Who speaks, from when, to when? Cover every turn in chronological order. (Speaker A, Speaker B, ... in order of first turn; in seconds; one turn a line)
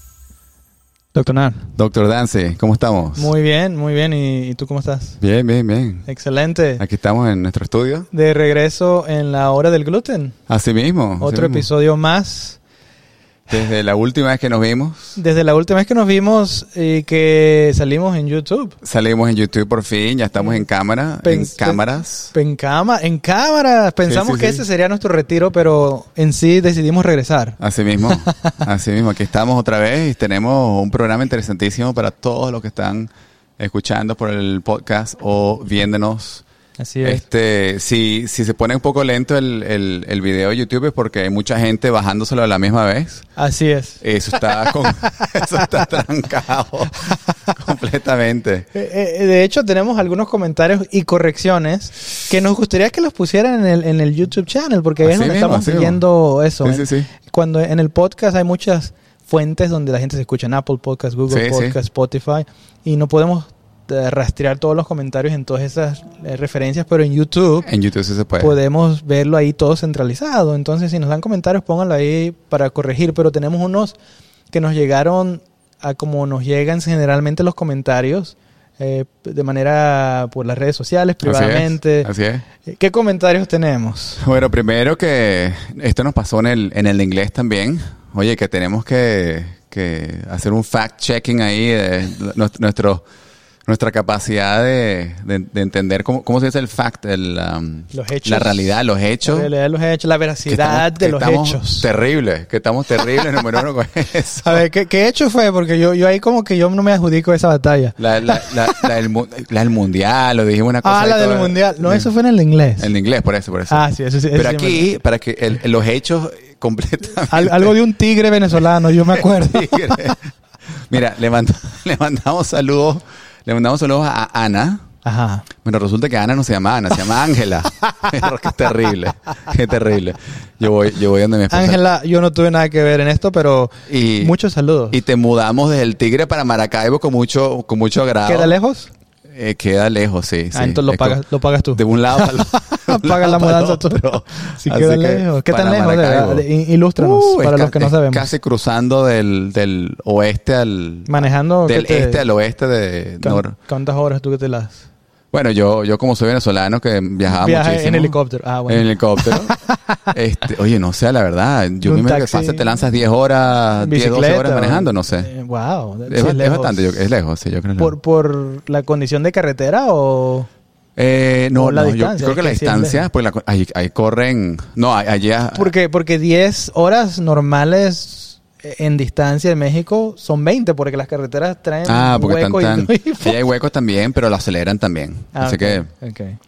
Speaker A: 1.1-1.7
Speaker B: 1.8-3.3
Speaker A: 3.2-5.2
Speaker B: 5.2-6.1
Speaker A: 6.1-6.8
Speaker B: 6.8-8.1
Speaker A: 8.1-10.4
Speaker B: 10.5-11.7
Speaker A: 11.2-12.6
Speaker B: 13.5-15.2
Speaker A: 15.2-18.8
Speaker B: 18.8-22.3
Speaker A: 20.4-20.6
Speaker A: 21.2-27.6
Speaker B: 24.1-24.6
Speaker B: 27.6-36.4
Speaker A: 28.1-28.6
Speaker A: 36.8-37.2
Speaker B: 37.0-43.3
Speaker A: 43.4-44.8
Speaker B: 44.0-48.7
Speaker A: 48.7-67.7
Speaker B: 55.0-56.0
Speaker B: 56.6-57.1
Speaker B: 61.3-61.8
Speaker B: 67.6-68.6
Speaker A: 68.4-74.0
Speaker A: 74.5-82.1
Speaker B: 81.2-82.4
Speaker A: 82.6-84.2
Speaker B: 84.2-93.0
Speaker B: 93.7-99.5
Speaker A: 97.9-101.9
Speaker B: 100.5-104.6
Speaker A: 104.4-108.9
Speaker B: 108.0-112.1
Speaker A: 110.8-112.9
Speaker B: 112.8-117.8
Speaker A: 113.7-114.9
Speaker A: 117.3-120.2
Speaker B: 118.8-120.2
Speaker B: 120.9-124.8
Speaker A: 125.0-125.5
Speaker B: 125.6-131.8
Speaker A: 131.5-135.0
Speaker B: 133.9-134.3
Speaker B: 134.9-138.5
Speaker A: 138.2-138.9
Speaker B: 139.3-141.2
Speaker A: 140.5-148.3
Speaker B: 141.7-153.6
Speaker A: 151.1-152.3
Speaker A: 153.2-154.8
Speaker B: 155.3-159.6
Speaker A: 157.3-160.1
Speaker B: 160.1-165.3
Speaker A: 161.8-162.7
Speaker A: 163.8-167.0
Speaker B: 166.1-167.9
Speaker A: 167.8-170.5
Speaker B: 170.9-175.7
Speaker A: 171.5-173.1
Speaker A: 175.5-183.4
Speaker B: 181.8-185.9
Speaker A: 185.3-186.4